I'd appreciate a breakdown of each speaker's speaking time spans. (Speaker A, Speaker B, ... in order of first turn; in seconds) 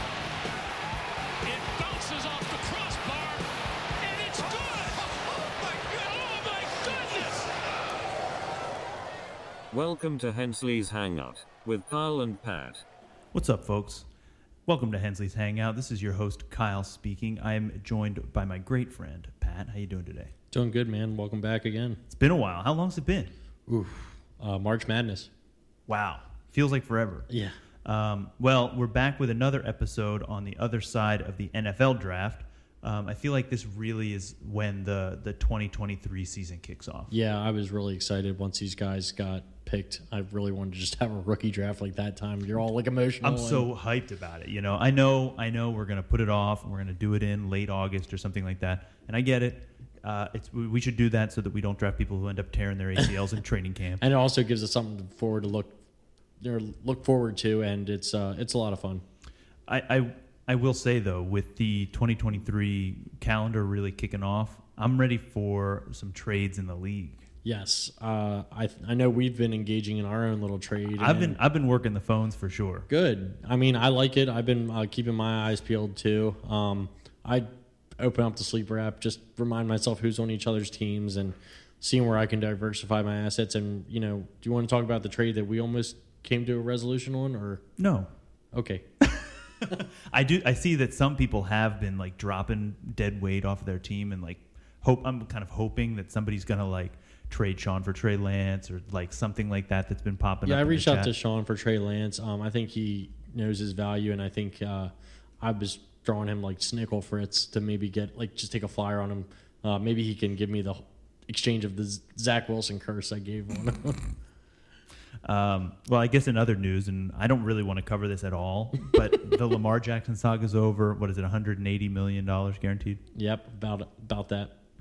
Speaker A: 1.4-3.5, 4.0-7.5
Speaker B: 9.7-12.8
Speaker C: 13.3-14.1, 14.7-20.3, 22.1-23.3, 25.9-27.3, 27.9-37.1, 43.2-54.0, 59.7-67.2, 71.0-72.9, 87.8-88.1, 89.6-101.1, 115.2-123.0
Speaker D: 20.5-22.0, 23.7-25.3, 27.3-27.6, 37.1-43.7, 54.0-55.8, 56.4-59.0, 67.4-71.4, 72.9-77.5, 78.0-87.6, 88.5-89.7, 100.5-114.1, 123.1-124.5